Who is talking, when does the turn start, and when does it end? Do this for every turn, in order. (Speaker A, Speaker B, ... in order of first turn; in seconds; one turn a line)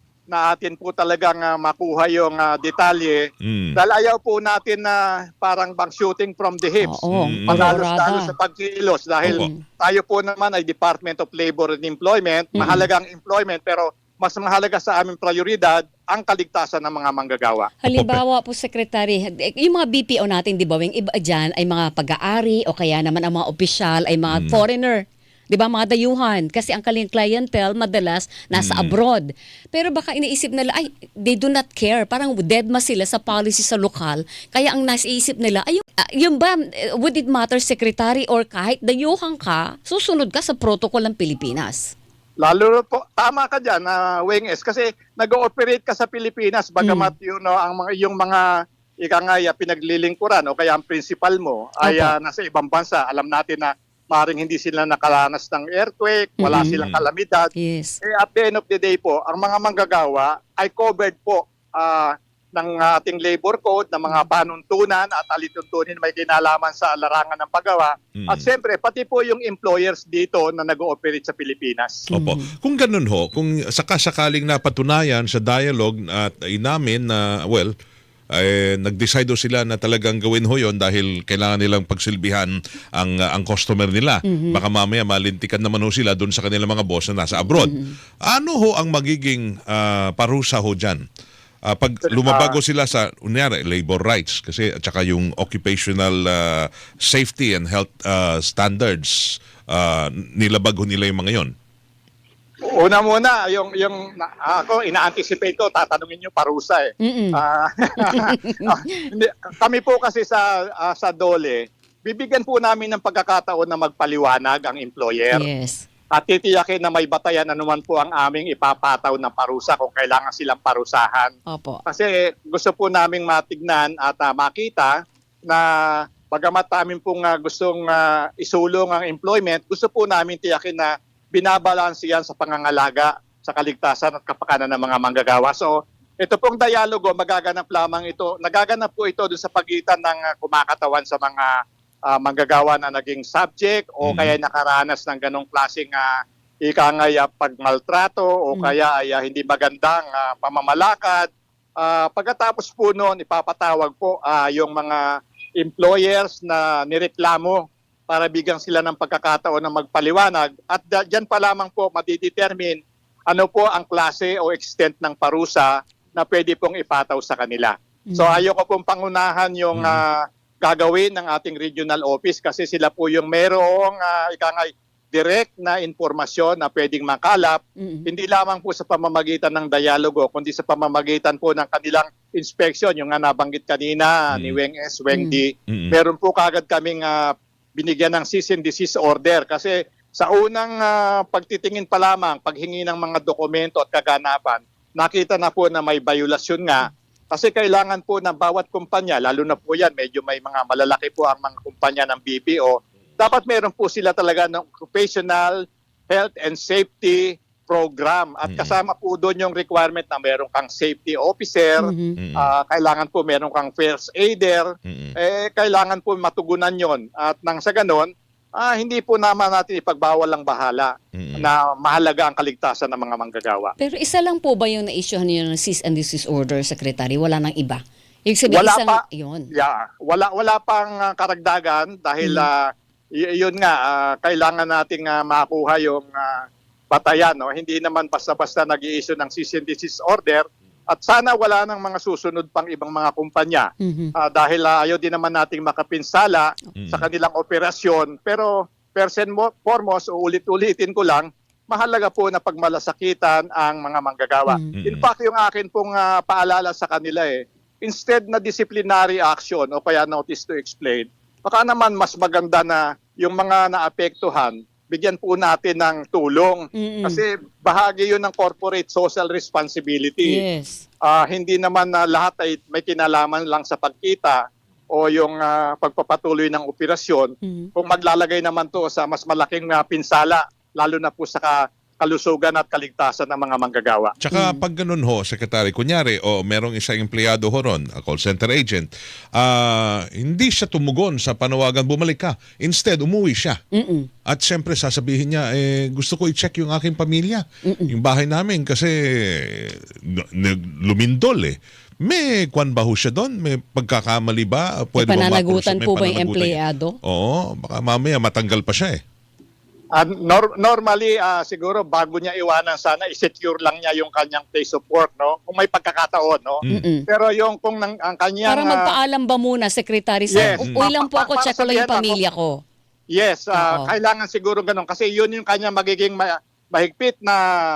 Speaker A: 0.3-3.2
Speaker B: 3.4-3.8
Speaker A: 3.8-17.7
Speaker C: 6.8-8.3
Speaker B: 7.1-7.7
Speaker C: 9.2-9.6
Speaker C: 12.6-12.9
Speaker C: 17.8-41.9
Speaker B: 17.9-18.2
Speaker B: 24.3-24.6
Speaker B: 28.5-28.9
Speaker A: 42.4-48.4
Speaker C: 46.8-47.1
Speaker A: 49.0-57.5
Speaker C: 51.8-52.1
Speaker C: 56.4-56.8
Speaker B: 56.8-57.0
Speaker C: 57.5-58.0
Speaker A: 58.0-72.1
Speaker B: 68.2-68.5
Speaker C: 72.1-72.5
Speaker B: 72.1-77.7
Speaker B: 78.3-91.0
Speaker C: 84.2-84.6
Speaker C: 87.5-87.9
Speaker B: 91.7-101.5
Speaker A: 92.1-92.6
Speaker A: 102.7-115.4
Speaker C: 107.0-107.4
Speaker C: 108.0-109.1
Speaker C: 115.3-115.8
Speaker A: 116.1-121.3
Speaker C: 121.5-121.8
Speaker A: 121.8-124.9
Speaker A: 125.5-141.5
Speaker A: 142.1-155.1
Speaker B: 144.0-144.3
Speaker A: 155.6-205.6
Speaker C: 168.1-168.4
Speaker B: 169.7-170.0
Speaker C: 177.8-178.1
Speaker B: 184.3-184.6
Speaker C: 185.1-185.4
Speaker B: 185.7-185.9
Speaker A: 206.1-223.7
Speaker B: 208.4-208.8
Speaker C: 211.8-212.2
Speaker B: 212.2-212.5
Speaker B: 214.8-215.1
Speaker B: 221.1-221.5
Speaker C: 223.8-229.5
Speaker A: 228.5-270.4
Speaker C: 232.2-232.5
Speaker C: 243.8-244.1
Speaker B: 246.8-247.0
Speaker C: 254.5-254.8
Speaker B: 254.7-255.0
Speaker C: 266.8-267.2
Speaker C: 270.2-270.8
Speaker A: 271.0-274.4
Speaker A: 274.9-284.1
Speaker C: 277.4-277.7
Speaker B: 284.2-293.6
Speaker C: 284.3-284.6
Speaker C: 293.7-294.1
Speaker B: 294.2-309.0
Speaker C: 297.6-297.9
Speaker C: 305.0-307.0
Speaker A: 309.9-318.9
Speaker C: 316.7-317.1
Speaker C: 318.5-322.6
Speaker A: 320.3-322.2
Speaker B: 320.4-320.9
Speaker A: 323.1-327.4
Speaker C: 323.6-323.9